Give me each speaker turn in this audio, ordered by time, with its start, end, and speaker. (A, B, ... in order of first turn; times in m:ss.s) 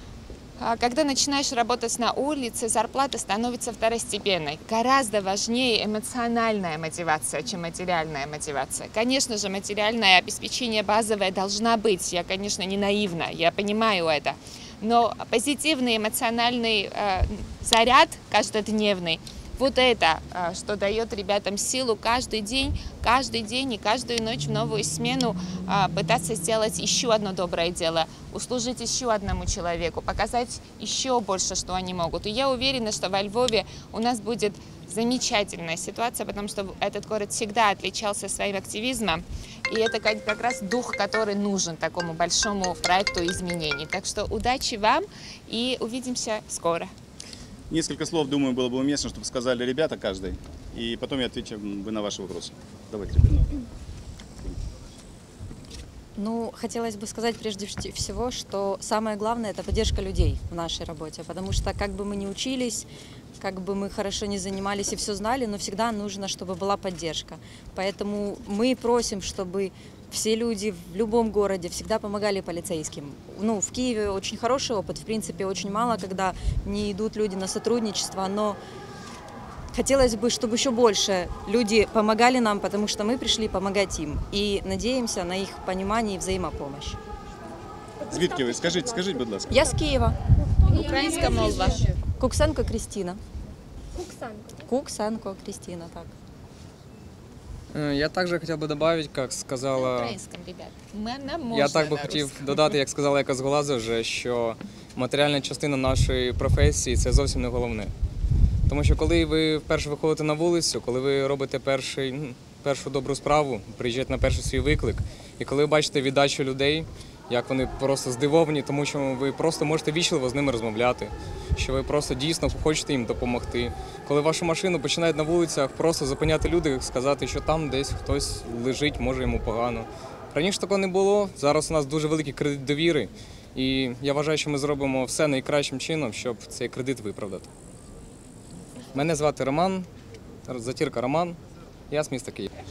0:00.6-0:46.9 A
0:47.7-0:53.5 B
0:56.2-1:02.8 C
1:03.4-1:18.6 C
1:19.7-1:27.0 C
1:28.0-1:29.0 D
1:28.0-1:29.7 B
1:29.5-1:30.2 C
1:30.6-1:32.0 A
1:30.7-1:31.7 D
1:30.9-1:33.2 C
1:33.9-1:34.6 D
1:34.6-1:36.1 C
1:37.7-1:40.2 E
1:39.7-1:42.6 A
1:41.5-1:47.9 E
1:48.7-2:17.5 E
2:18.9-2:19.9 E
2:20.5-2:21.4 E
2:21.9-2:22.5 E